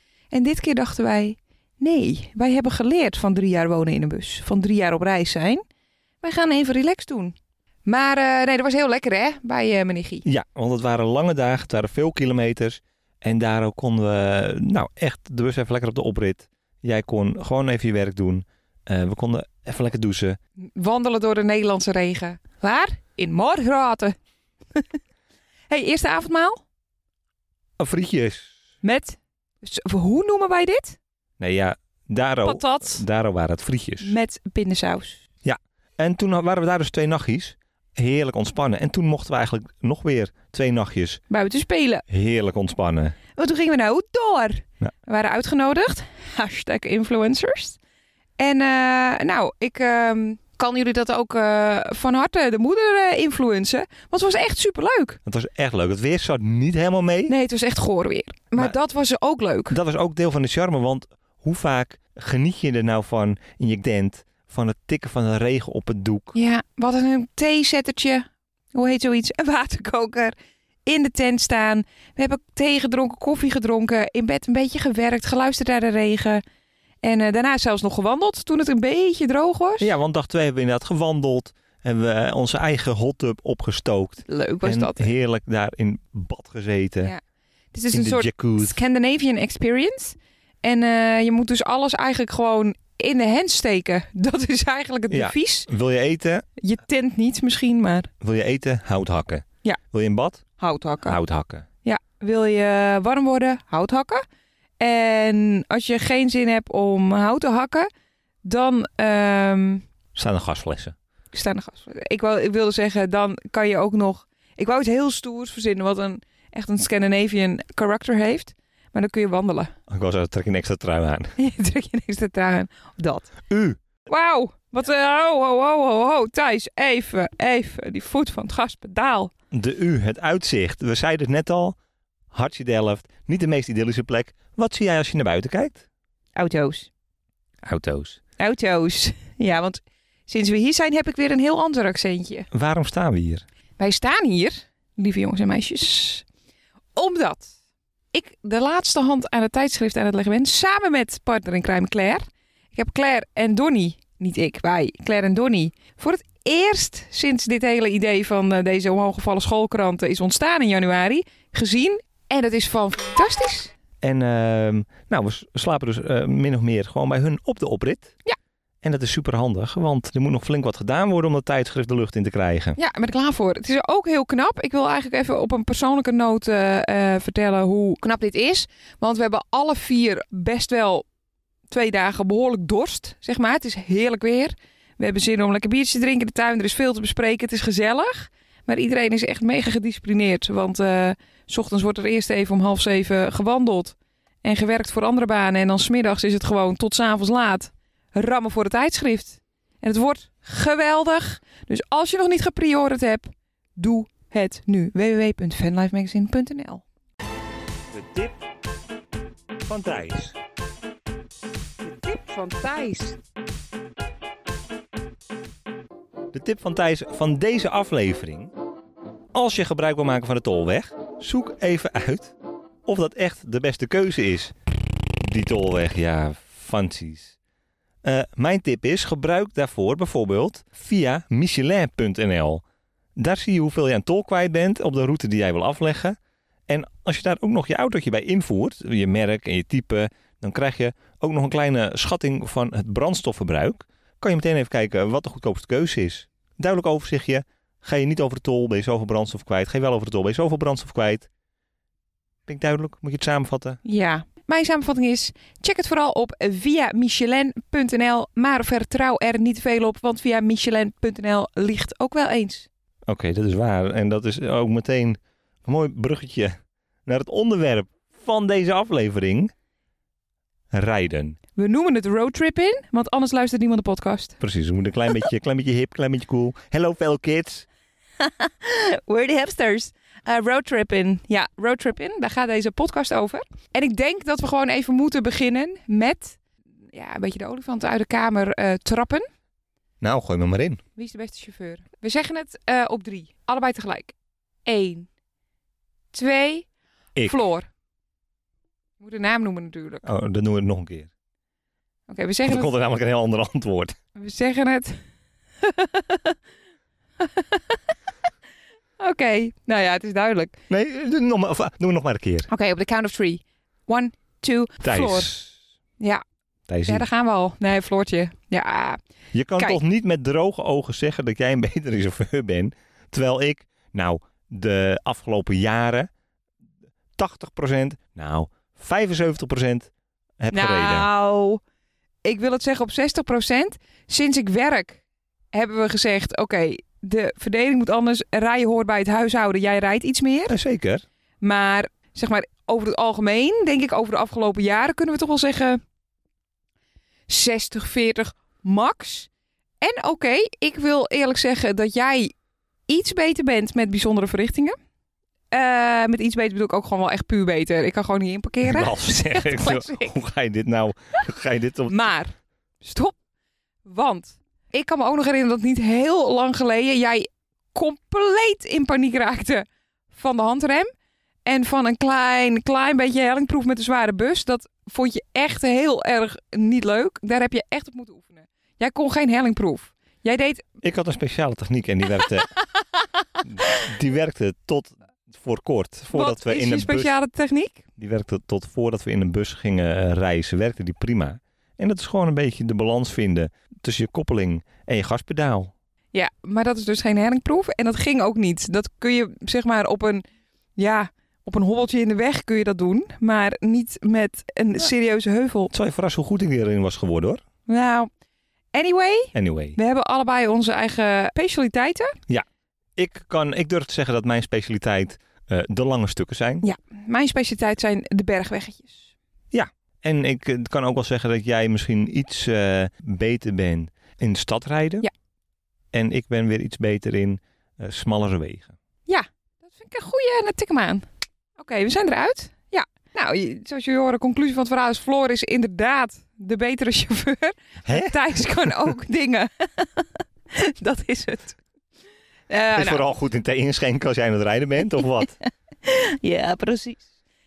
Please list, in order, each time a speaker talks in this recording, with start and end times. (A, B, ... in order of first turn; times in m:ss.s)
0:00.3-0:05.6 A
0:06.2-0:10.2 A
0:10.2-0:20.4 B
0:20.7-0:24.2 A
0:25.7-0:26.6 A
0:27.8-0:28.5 B
0:28.8-0:31.0 A
0:31.4-0:34.1 B
0:32.4-0:33.0 A
0:34.0-0:35.2 A
0:35.4-0:41.2 B
0:41.3-0:42.0 A
0:42.1-0:43.2 B
0:43.4-0:47.8 A
0:48.4-0:55.2 A
0:55.2-0:57.3 B
0:57.3-0:59.8 A
0:59.7-1:06.3 B
1:06.3-1:10.3 A
1:10.8-1:16.4 A
1:17.0-1:19.9 A
1:19.8-1:27.1 B
1:24.3-1:25.1 A
1:27.7-1:35.7 A
1:27.9-1:28.8 B
1:35.1-1:36.4 B
1:36.6-1:38.1 A
1:38.2-1:40.4 B
1:40.6-1:41.2 A
1:41.0-1:41.6 B
1:41.8-1:44.2 A
1:44.8-1:47.9 A
1:48.4-1:49.8 A
1:50.1-1:50.9 B
1:51.3-1:59.7 A
1:59.9-2:01.3 B
2:01.4-2:03.3 A
2:03.5-2:03.8 B
2:04.1-2:09.3 A
2:09.5-2:11.8 B
2:12.3-2:15.8 B
2:16.4-2:16.9 A
2:17.6-2:18.2 B
2:18.4-2:22.5 A
2:22.5-2:23.4 B
2:23.8-2:26.2 A
2:27.0-2:27.5 A
2:28.1-2:43.7 A
2:44.0-2:48.1 B
2:48.8-2:52.8 B
2:52.8-3:01.0 A
3:01.7-3:26.8 A
3:27.9-3:28.4 B
3:29.7-3:30.4 B
3:31.8-3:33.2 A
3:36.3-3:38.5 B
3:39.3-3:42.3 B
3:42.8-3:44.5 B
3:45.2-3:47.3 B
3:48.0-3:52.6 B
3:53.2-3:56.2 B
3:56.7-4:11.3 B
4:12.4-4:13.8 B
4:13.8-4:22.7 A
4:23.1-4:29.5 B
4:30.7-4:31.4 B
4:31.6-4:34.4 A
4:34.4-4:37.7 B
4:38.2-4:46.4 A
4:46.9-4:49.2 A
4:50.0-4:50.8 B
4:51.0-4:54.1 A
4:54.6-4:55.1 A
4:56.1-4:56.7 A
4:57.2-4:57.7 A
4:59.0-5:00.1 A
5:00.0-5:01.1 B
5:02.1-5:02.7 A
5:02.4-5:03.9 B
5:04.1-5:05.0 A
5:05.6-5:06.4 A
5:07.2-5:07.8 A
5:09.0-5:10.5 A
5:10.7-5:12.5 B
5:12.5-5:15.3 A
5:14.8-5:15.5 B
5:16.7-5:17.0 B
5:16.9-5:19.0 A
5:19.3-5:26.1 B
5:27.2-5:31.1 B
5:30.5-5:31.6 A
5:32.2-5:35.0 A
5:35.5-5:40.6 A
5:40.5-5:41.0 B
5:41.4-5:45.8 A
5:47.3-5:49.3 A
5:49.8-5:52.3 A
5:52.9-5:54.8 A
5:55.5-6:00.1 A
5:58.6-6:02.0 B
6:01.9-6:03.1 A
6:03.8-6:10.9 A
6:11.4-6:20.6 A
6:20.8-6:22.5 B
6:23.4-6:27.1 B
6:26.1-6:27.8 A
6:28.0-6:35.7 B
6:36.1-6:40.2 A
6:40.8-6:45.7 A
6:45.7-6:47.4 B
6:47.7-6:48.1 A
6:48.7-6:52.2 A
6:49.3-6:49.8 B
6:53.0-6:56.6 B
6:56.6-6:59.1 A
6:59.5-7:05.0 B
7:05.9-7:08.8 B
7:09.1-7:11.0 A
7:11.6-7:21.6 A
7:17.8-7:18.9 B
7:22.5-7:23.0 A
7:22.7-7:25.4 B
7:25.8-7:27.0 A